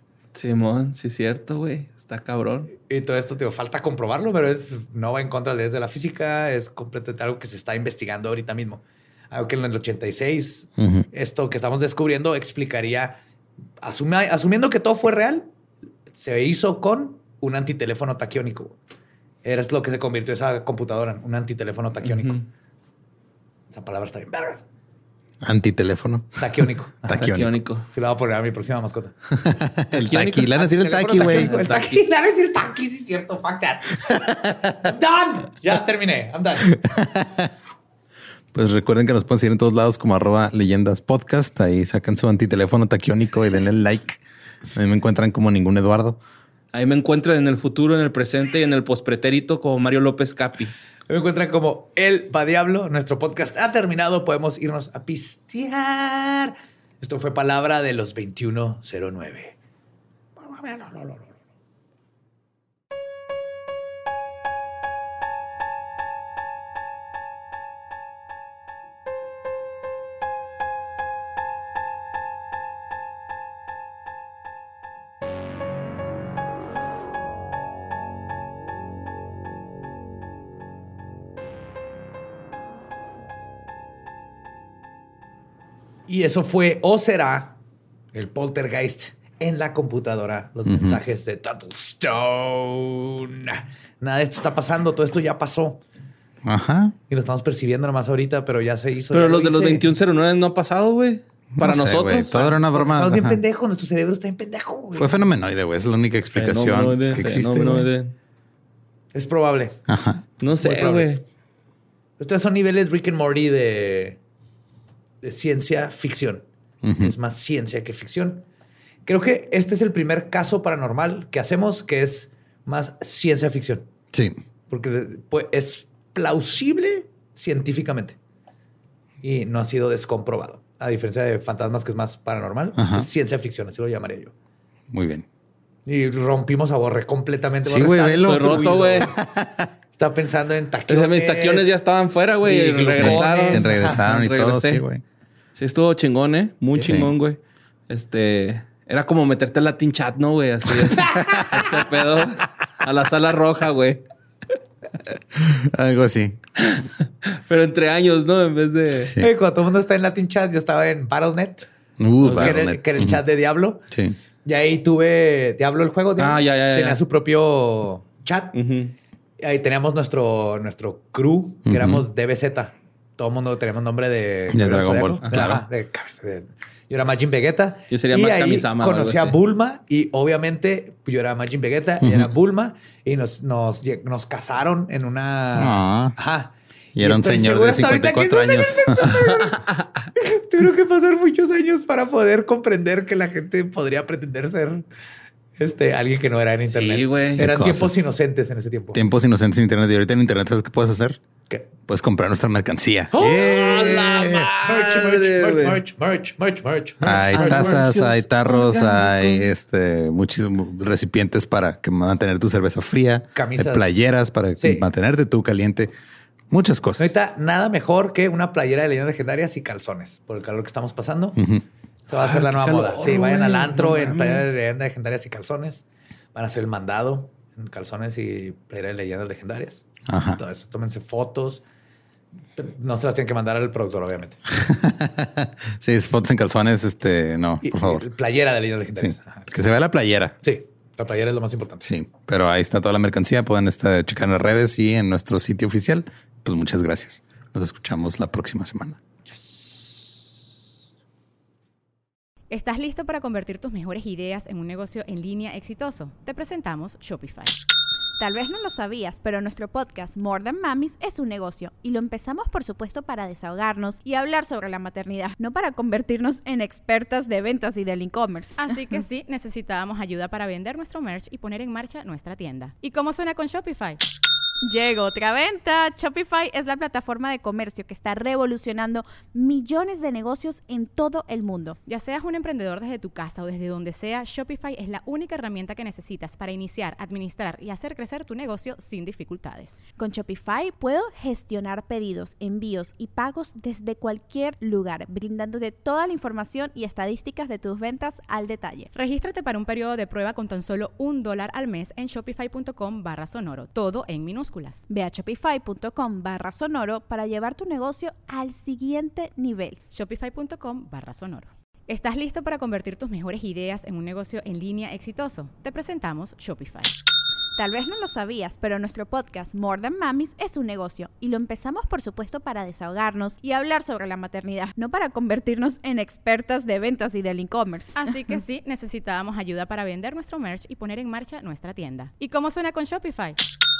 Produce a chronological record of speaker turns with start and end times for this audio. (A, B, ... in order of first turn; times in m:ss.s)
0:00.3-0:02.7 A
0:02.8-0:13.2 B
0:10.8-0:11.0 C
0:13.8-0:15.5 B
0:16.1-0:18.8 B
0:19.4-0:22.5 B
0:23.7-0:24.6 B
0:25.4-0:27.5 C
0:26.4-0:27.3 B
0:27.1-0:27.8 A
0:27.9-0:29.1 B
0:29.4-0:31.5 C
0:30.0-0:32.0 A
0:30.6-0:36.8 B
0:34.1-0:34.7 C
0:36.7-0:37.5 C
0:38.5-0:44.2 C
0:44.7-0:46.2 C
0:46.7-0:50.7 A
0:51.1-0:59.5 B
1:00.4-1:01.3 B
1:26.1-1:27.6 B
1:28.1-1:35.8 B
1:30.6-1:31.0 C
1:36.4-1:36.9 C
1:37.1-1:39.9 B
1:39.1-1:42.5 A
1:41.5-1:43.4 C
1:42.4-1:45.2 B
1:44.9-1:47.9 C
1:46.3-1:48.1 A
1:49.1-1:49.8 B
1:49.9-1:50.2 C
1:50.4-1:51.2 A
1:50.5-1:51.1 B
1:52.2-1:54.2 B
1:55.2-1:56.4 B
1:56.8-1:57.1 C
1:57.0-1:58.4 B
1:59.0-2:03.9 B
2:04.7-2:08.2 B
2:09.2-2:14.3 B
2:12.8-2:13.1 C
2:14.9-2:15.2 C
2:15.8-2:19.1 B
2:17.6-2:19.7 C
2:18.2-2:19.1 A
2:19.9-2:21.7 B
2:20.9-2:24.8 A
2:22.4-2:24.0 B
2:22.8-2:25.0 C
2:25.6-2:27.4 A
2:26.7-2:27.1 C
2:27.9-2:34.0 A
2:31.0-2:31.6 B
2:35.3-2:36.4 C
2:36.6-2:39.1 A
2:39.0-2:39.3 C
2:39.2-2:41.7 B
2:42.0-2:43.2 C
2:42.2-2:42.6 A
2:42.3-2:43.8 B
2:43.9-2:44.2 C
2:44.4-2:48.6 B
2:46.2-2:47.0 A
2:48.5-2:48.9 A
2:49.4-3:14.8 B
2:51.6-2:52.0 C
2:54.5-2:55.6 C
2:55.2-2:55.6 A
2:57.9-2:59.4 A
3:02.0-3:02.3 C
3:05.5-3:06.2 C
3:06.9-3:09.3 C
3:15.6-3:19.0 B
3:16.7-3:17.4 A
3:17.4-3:18.0 C
3:18.9-3:21.2 C
3:21.9-3:24.5 C
3:23.2-3:25.8 A
3:23.2-3:27.9 B
3:27.0-3:35.9 C
3:27.0-3:29.5 A
3:33.3-3:34.0 B
3:34.6-3:34.8 B
3:36.5-3:37.1 C
3:37.0-3:41.4 B
3:41.4-3:41.6 C
3:42.1-3:51.6 B
3:42.1-3:44.5 A
3:50.1-3:50.4 C
3:52.6-3:54.4 B
3:54.6-3:58.0 C
3:57.6-3:59.5 B
3:59.0-4:00.4 C
4:00.4-4:01.8 B
4:01.8-4:09.0 C
4:09.3-4:10.1 B
4:12.5-4:17.6 D
4:18.2-4:28.6 E
4:28.6-4:34.0 D
4:34.6-4:41.8 E
4:41.8-4:49.8 D
4:50.0-4:58.9 E
4:58.9-5:04.8 D
5:04.9-5:09.8 E
5:09.9-5:16.9 D
5:17.6-5:28.1 E
5:28.0-5:33.4 D